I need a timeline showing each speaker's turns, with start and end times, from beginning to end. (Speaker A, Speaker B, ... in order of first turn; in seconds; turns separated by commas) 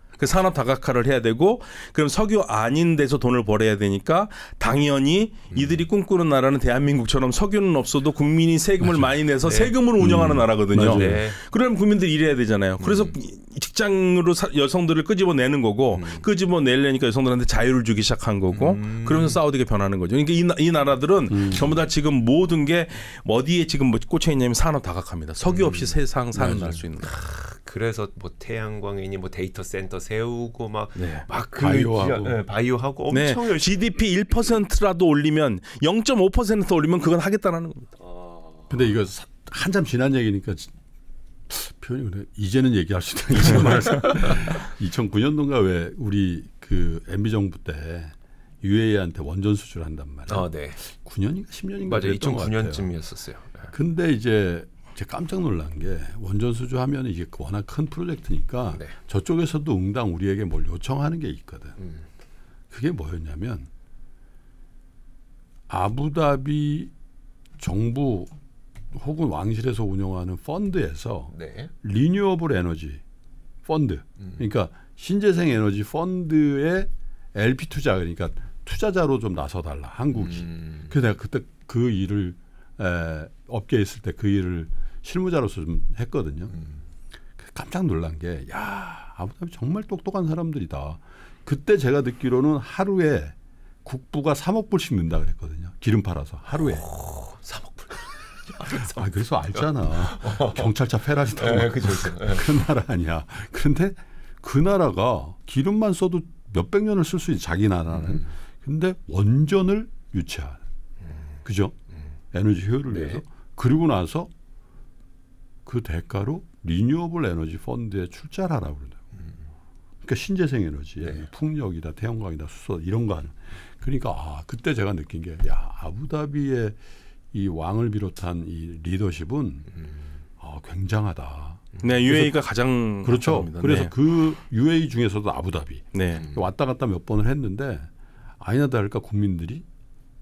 Speaker A: 0.2-27.2, Speaker B: 5.5-5.8, Speaker C: 8.8-9.1, Speaker B: 9.4-9.7, Speaker C: 10.0-11.3, Speaker B: 10.9-11.4, Speaker B: 12.8-13.1, Speaker B: 15.9-16.3, Speaker B: 18.5-19.4, Speaker C: 21.3-21.7, Speaker B: 25.4-26.0, Speaker C: 26.3-26.8, Speaker B: 27.0-33.9, Speaker C: 31.0-32.4, Speaker A: 33.1-37.9, Speaker C: 38.7-40.7, Speaker C: 41.5-52.9, Speaker B: 50.3-50.8, Speaker B: 51.8-53.7, Speaker C: 53.7-61.8, Speaker B: 61.8-62.0, Speaker C: 62.7-63.7, Speaker C: 65.7-66.9, Speaker C: 67.6-68.3, Speaker C: 68.9-73.0, Speaker B: 71.3-71.7, Speaker C: 73.6-86.5, Speaker B: 80.2-80.9, Speaker C: 87.4-96.8, Speaker B: 96.5-100.7, Speaker C: 98.7-110.6, Speaker B: 101.4-102.6, Speaker B: 107.9-108.3, Speaker C: 111.4-111.8, Speaker C: 112.3-114.3, Speaker B: 112.9-113.2, Speaker C: 115.6-119.0, Speaker C: 120.0-126.8, Speaker C: 127.3-129.7, Speaker B: 129.7-130.0, Speaker C: 130.4-132.4, Speaker A: 131.8-133.9, Speaker C: 133.0-139.7, Speaker A: 135.9-136.2